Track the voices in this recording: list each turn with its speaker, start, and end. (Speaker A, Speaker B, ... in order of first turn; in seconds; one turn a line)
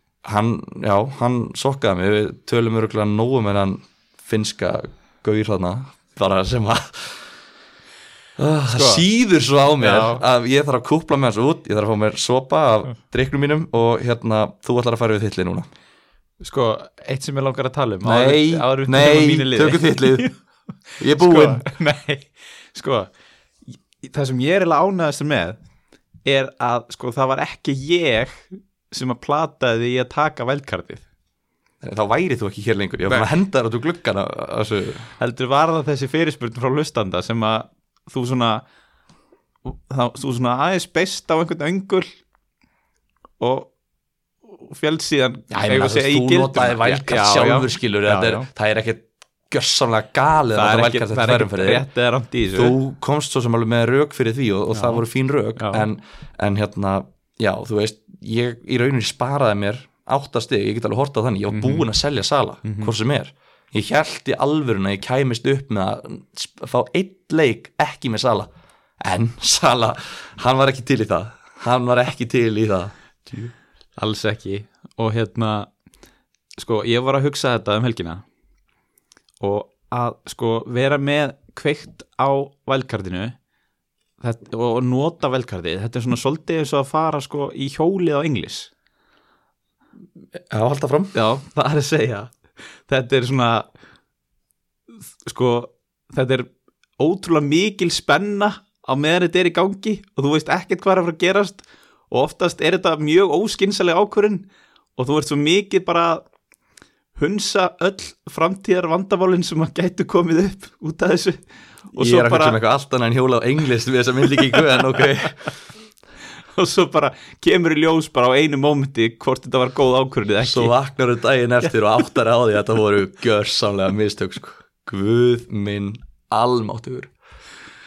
Speaker A: 0.2-7.3
Speaker A: 8.4-15.7
Speaker B: 8.7-9.0
Speaker B: 9.8-10.2
Speaker B: 16.4-20.3
Speaker A: 18.0-20.3
Speaker B: 20.9-23.1
Speaker A: 21.0-21.7
Speaker B: 24.0-25.6
Speaker B: 26.2-31.0
Speaker A: 31.8-35.1
Speaker B: 35.2-38.6
Speaker B: 39.6-42.1
Speaker B: 43.4-43.7
Speaker B: 44.5-48.5
Speaker A: 45.5-51.9
Speaker B: 50.5-52.8
Speaker A: 52.5-73.5
Speaker B: 54.7-55.0
Speaker B: 55.5-55.9
Speaker B: 61.5-61.9
Speaker B: 62.6-62.9
Speaker B: 74.0-75.7
Speaker B: 76.6-78.2
Speaker B: 79.4-83.3
Speaker B: 84.2-88.7
Speaker A: 90.5-91.1
Speaker B: 91.1-92.3
Speaker B: 92.9-93.7
Speaker B: 95.2-104.4
Speaker B: 105.0-106.2
Speaker B: 107.1-111.4
Speaker B: 111.9-112.6
Speaker A: 112.0-115.5
Speaker B: 116.5-120.7
Speaker A: 120.4-127.1